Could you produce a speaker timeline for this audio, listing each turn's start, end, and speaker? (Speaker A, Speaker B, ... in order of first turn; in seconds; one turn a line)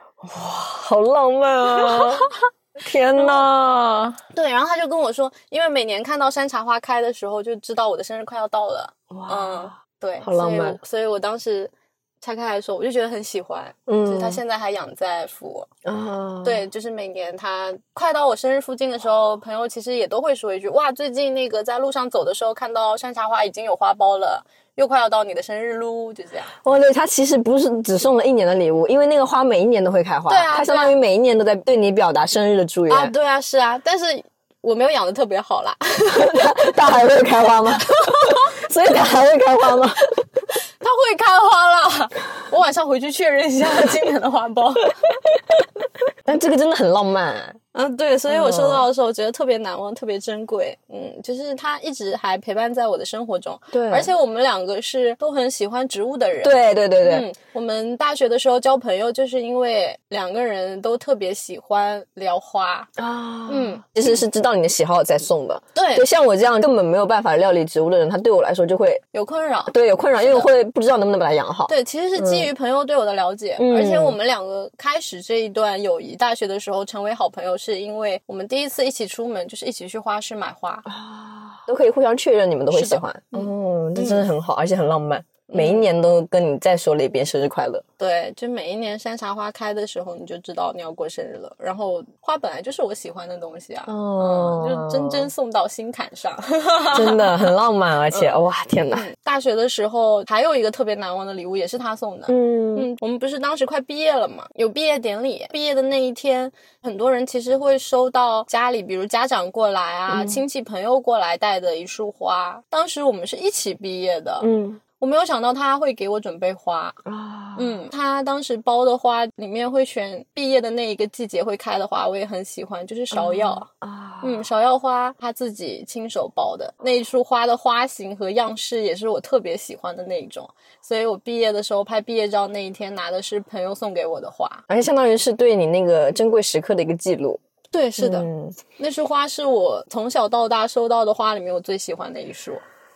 Speaker A: 0.2-4.2
Speaker B: 1.7-2.2
Speaker B: 3.1-3.5
Speaker B: 4.3-15.7
Speaker A: 9.1-10.8
Speaker A: 13.9-14.4
Speaker A: 15.8-16.6
Speaker B: 16.4-26.5
Speaker A: 26.6-33.1
Speaker B: 30.3-30.9
Speaker B: 32.9-36.8
Speaker A: 36.1-40.0
Speaker B: 37.9-38.5
Speaker B: 40.8-45.2
Speaker A: 46.2-47.6
Speaker B: 47.7-62.9
Speaker A: 48.3-48.9
Speaker A: 53.7-54.1
Speaker A: 56.4-57.3
Speaker A: 63.0-69.0
Speaker B: 63.5-63.9
Speaker B: 65.7-66.0
Speaker B: 69.1-70.5
Speaker A: 69.7-72.5
Speaker B: 71.7-80.9
Speaker A: 73.6-74.2
Speaker A: 80.8-87.8
Speaker B: 82.7-84.3
Speaker B: 85.5-85.9
Speaker B: 88.0-97.5
Speaker A: 93.9-95.3
Speaker A: 96.9-99.1
Speaker B: 98.1-98.4
Speaker B: 98.9-114.5
Speaker A: 102.3-102.9
Speaker A: 110.1-110.4
Speaker A: 114.4-114.8
Speaker B: 115.0-117.0
Speaker A: 117.0-117.8
Speaker B: 117.5-123.7
Speaker A: 123.1-124.4
Speaker B: 124.2-134.6
Speaker A: 134.7-137.4
Speaker B: 137.7-142.6
Speaker A: 138.0-138.6